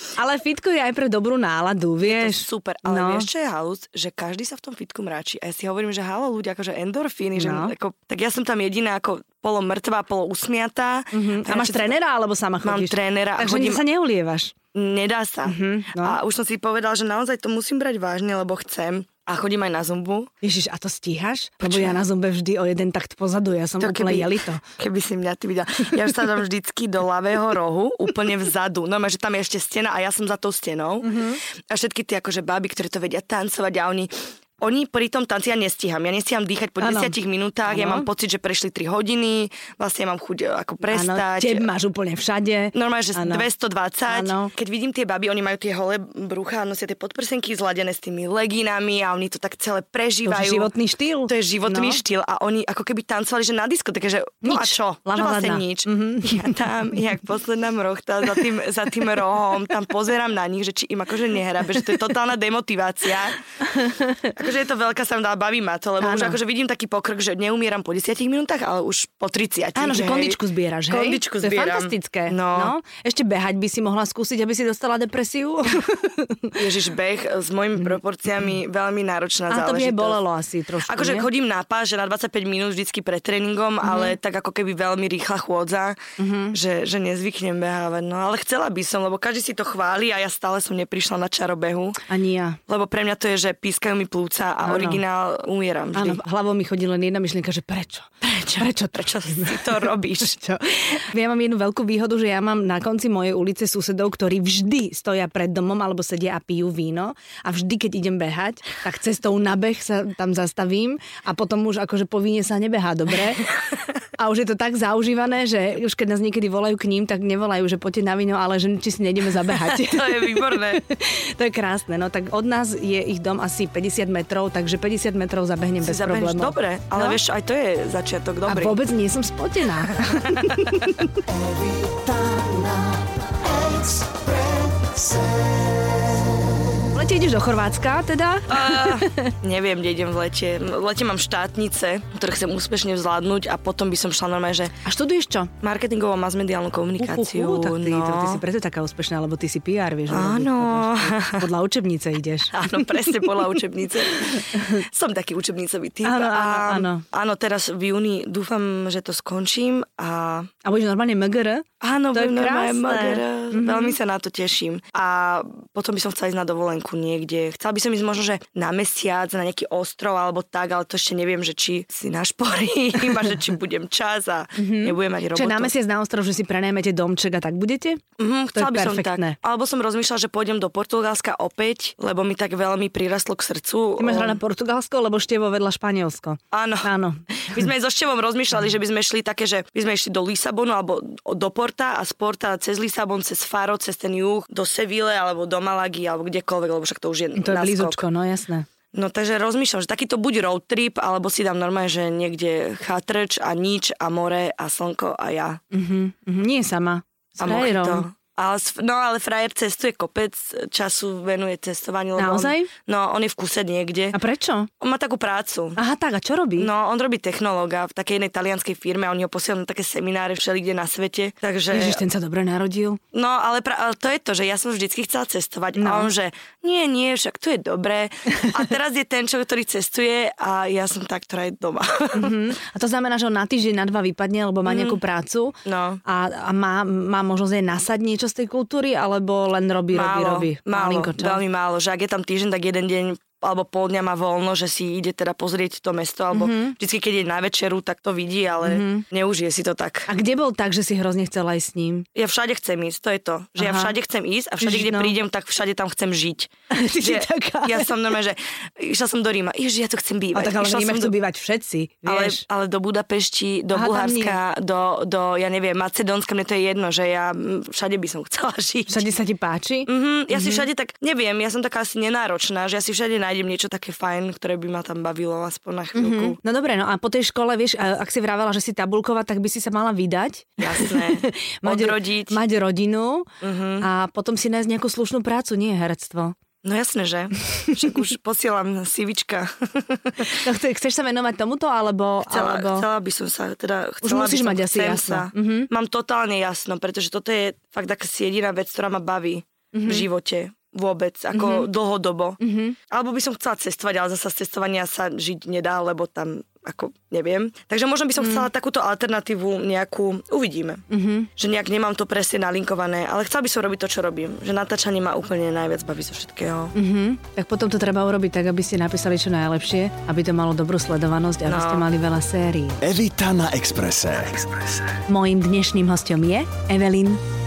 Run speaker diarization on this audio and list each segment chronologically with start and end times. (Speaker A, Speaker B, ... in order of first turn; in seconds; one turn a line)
Speaker A: 0.1-3.3
Speaker B: 2.0-12.0
Speaker A: 7.3-7.7
Speaker A: 11.1-14.5
Speaker B: 12.6-13.8
Speaker B: 14.7-20.3
Speaker A: 15.4-16.2
Speaker A: 20.4-24.6
Speaker B: 21.6-22.0
Speaker B: 23.8-41.6
Speaker A: 31.0-31.4
Speaker A: 36.8-38.1
Speaker A: 40.9-43.5
Speaker B: 42.7-50.7
Speaker A: 44.1-44.5
Speaker A: 50.2-52.0
Speaker B: 51.3-63.4
Speaker A: 54.4-56.6
Speaker A: 63.7-64.2
Speaker B: 64.3-72.7
Speaker A: 66.0-66.4
Speaker A: 69.7-76.5
Speaker B: 76.6-80.2
Speaker A: 79.5-81.3
Speaker B: 80.9-86.0
Speaker A: 83.8-84.2
Speaker A: 86.2-86.6
Speaker B: 86.5-92.0
Speaker A: 92.1-92.6
Speaker B: 92.7-96.2
Speaker A: 94.6-95.0
Speaker A: 95.9-113.5
Speaker B: 98.4-100.4
Speaker A: 114.2-127.2
Speaker B: 119.5-120.8
Speaker B: 125.8-128.8
Speaker A: 128.4-131.1
Speaker B: 130.1-130.8
Speaker C: 131.9-132.6
Speaker A: 136.9-139.3
Speaker B: 138.5-144.7
Speaker A: 144.8-145.5
Speaker B: 145.6-148.4
Speaker A: 147.0-153.3
Speaker B: 150.1-151.4
Speaker B: 152.5-160.5
Speaker A: 154.3-154.8
Speaker A: 156.0-157.0
Speaker A: 160.6-163.9
Speaker B: 161.8-175.7
Speaker A: 174.6-178.0
Speaker B: 178.2-184.4
Speaker A: 178.5-179.3
Speaker A: 184.0-187.2
Speaker B: 186.5-186.9
Speaker B: 187.5-198.0
Speaker A: 197.4-198.7
Speaker B: 198.9-205.6
Speaker A: 205.7-208.1
Speaker B: 207.4-214.2
Speaker A: 212.2-212.7
Speaker A: 214.1-214.7
Speaker B: 214.8-215.8
Speaker A: 215.8-216.7
Speaker B: 216.6-222.0
Speaker A: 221.7-223.0
Speaker B: 223.1-232.3
Speaker A: 225.8-226.1
Speaker A: 232.2-241.4
Speaker B: 234.7-235.0
Speaker B: 235.6-236.0
Speaker B: 239.9-250.1
Speaker A: 246.3-246.7
Speaker A: 248.6-249.0
Speaker A: 250.1-252.1
Speaker B: 252.1-261.1
Speaker A: 253.6-253.9
Speaker A: 254.6-255.2
Speaker A: 256.7-257.9
Speaker A: 260.3-262.4
Speaker B: 262.1-269.1
Speaker A: 263.7-264.4
Speaker A: 268.9-270.7
Speaker B: 269.9-276.4
Speaker A: 275.9-283.3
Speaker B: 280.6-282.4
Speaker B: 283.4-283.9
Speaker A: 283.8-286.3
Speaker B: 286.6-290.3
Speaker A: 290.4-292.9
Speaker B: 292.3-302.4
Speaker A: 294.0-295.7
Speaker A: 299.7-300.1
Speaker A: 301.3-301.7
Speaker A: 302.4-302.8
Speaker B: 302.9-310.8
Speaker A: 308.2-308.5
Speaker A: 310.9-311.3
Speaker B: 311.4-316.7
Speaker A: 316.7-322.8
Speaker B: 321.4-321.9
Speaker C: 322.8-324.6
Speaker A: 325.1-327.2